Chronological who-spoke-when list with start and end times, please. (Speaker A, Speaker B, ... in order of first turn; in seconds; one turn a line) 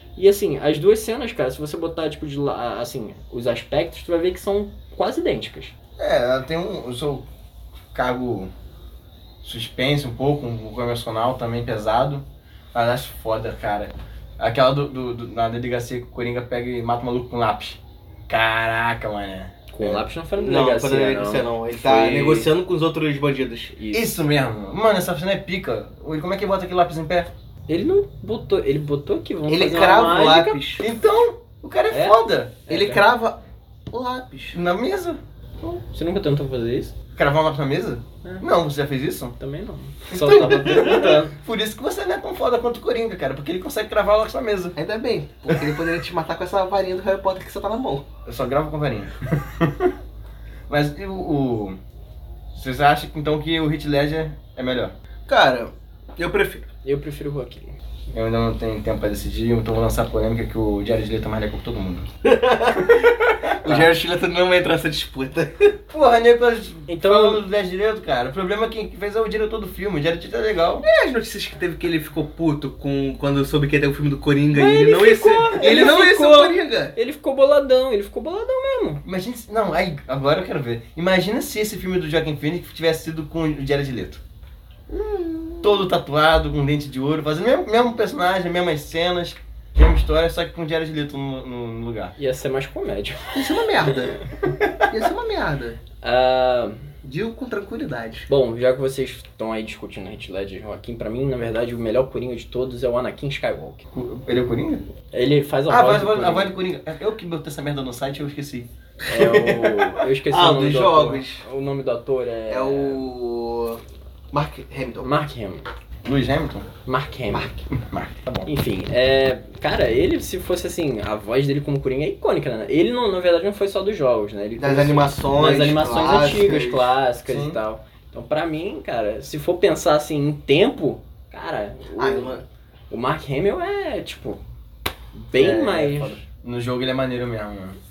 Speaker A: 0.1-5.7
Speaker B: 6.0-7.2
Speaker B: 7.9-8.5
Speaker B: 9.4-20.0
Speaker A: 19.7-22.5
Speaker C: 20.4-23.7
Speaker A: 23.8-24.1
Speaker B: 23.9-27.3
Speaker A: 27.7-30.6
Speaker C: 29.5-30.8
Speaker B: 30.8-32.6
Speaker A: 31.9-33.1
Speaker C: 32.7-34.6
Speaker B: 34.5-35.2
Speaker A: 35.6-36.9
Speaker B: 37.1-39.4
Speaker A: 39.4-41.3
Speaker B: 40.1-44.7
Speaker C: 40.3-40.8
Speaker C: 44.8-48.1
Speaker B: 48.2-49.9
Speaker B: 50.7-51.8
Speaker B: 52.5-54.9
Speaker C: 55.3-56.7
Speaker A: 56.8-57.7
Speaker B: 58.1-62.1
Speaker C: 62.2-63.0
Speaker C: 63.6-65.7
Speaker B: 65.9-70.8
Speaker A: 66.9-67.4
Speaker C: 70.8-76.9
Speaker A: 74.5-79.0
Speaker B: 79.0-84.2
Speaker C: 84.9-85.8
Speaker B: 85.6-92.1
Speaker A: 92.2-93.6
Speaker C: 93.3-94.2
Speaker C: 94.9-95.8
Speaker A: 96.0-96.8
Speaker C: 97.0-98.3
Speaker A: 98.3-103.8
Speaker B: 103.9-104.9
Speaker A: 105.1-106.5
Speaker B: 105.7-109.8
Speaker A: 109.1-113.0
Speaker C: 110.3-111.4
Speaker C: 112.5-113.8
Speaker C: 114.3-115.1
Speaker A: 115.0-115.6
Speaker B: 116.0-116.7
Speaker A: 116.8-117.5
Speaker B: 117.7-118.5
Speaker A: 118.4-132.3
Speaker C: 124.6-127.0
Speaker B: 127.3-127.6
Speaker C: 131.9-132.4
Speaker A: 132.9-134.4
Speaker A: 135.1-136.2
Speaker B: 135.3-137.8